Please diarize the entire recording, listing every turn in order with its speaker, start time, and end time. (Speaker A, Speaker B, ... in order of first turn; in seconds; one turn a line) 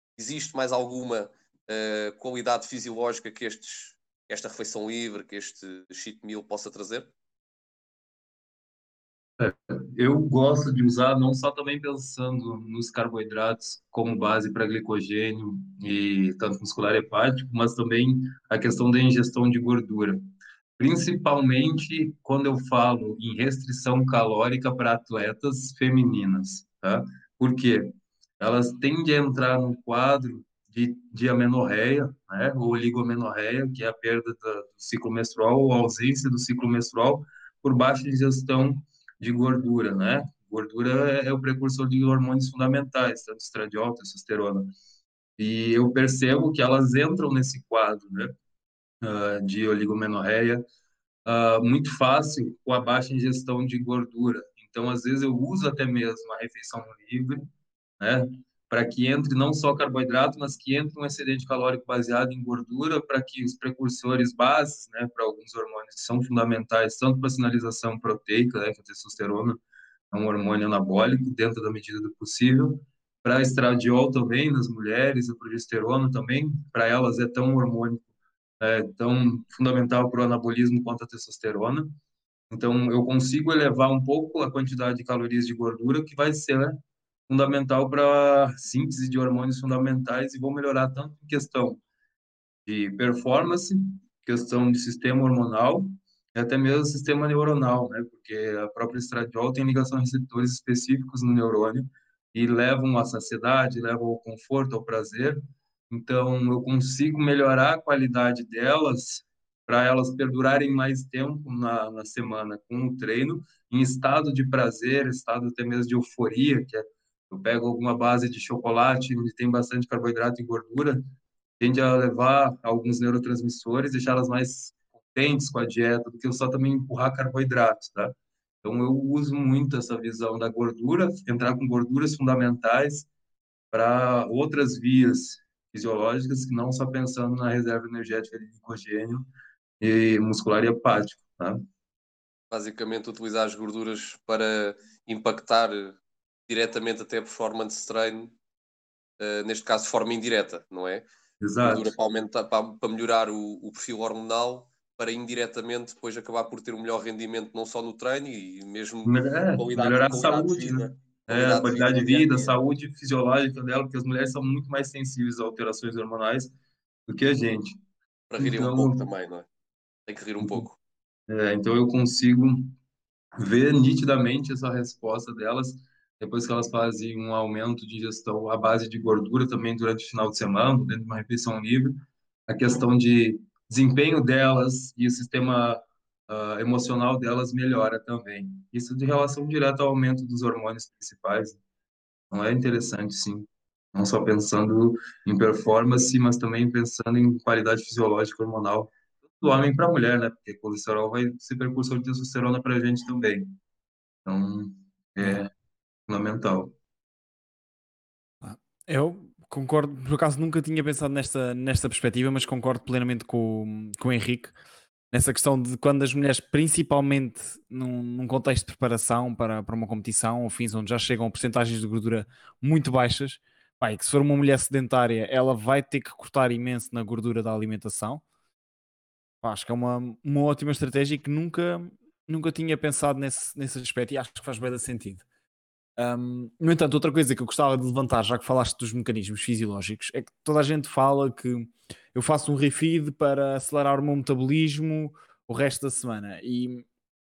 Speaker A: 0.2-7.1
Speaker B: 9.4-20.2
Speaker B: 20.8-44.7
Speaker B: 45.4-48.3
Speaker B: 49.0-50.6
Speaker B: 51.2-57.4
Speaker B: 58.0-69.6
Speaker B: 70.1-78.0
Speaker B: 78.6-81.9
Speaker B: 82.5-91.8
Speaker B: 92.7-105.4
Speaker B: 105.9-121.0
Speaker B: 121.6-133.1
Speaker B: 133.7-139.2
Speaker B: 139.8-141.6
Speaker A: 142.5-146.0
Speaker A: 146.5-148.3
Speaker A: 149.2-151.1
Speaker B: 151.4-151.9
Speaker A: 151.6-162.6
Speaker B: 159.1-166.5
Speaker B: 167.1-167.8
Speaker A: 168.3-169.5
Speaker B: 168.4-169.0
Speaker A: 170.1-170.8
Speaker B: 170.4-170.7
Speaker B: 171.3-172.7
Speaker B: 173.4-181.9
Speaker B: 182.5-191.6
Speaker B: 192.3-198.9
Speaker B: 199.4-203.6
Speaker B: 204.2-205.5
Speaker B: 206.1-206.7
Speaker C: 208.4-214.6
Speaker C: 215.1-228.2
Speaker C: 229.4-235.2
Speaker C: 236.0-246.8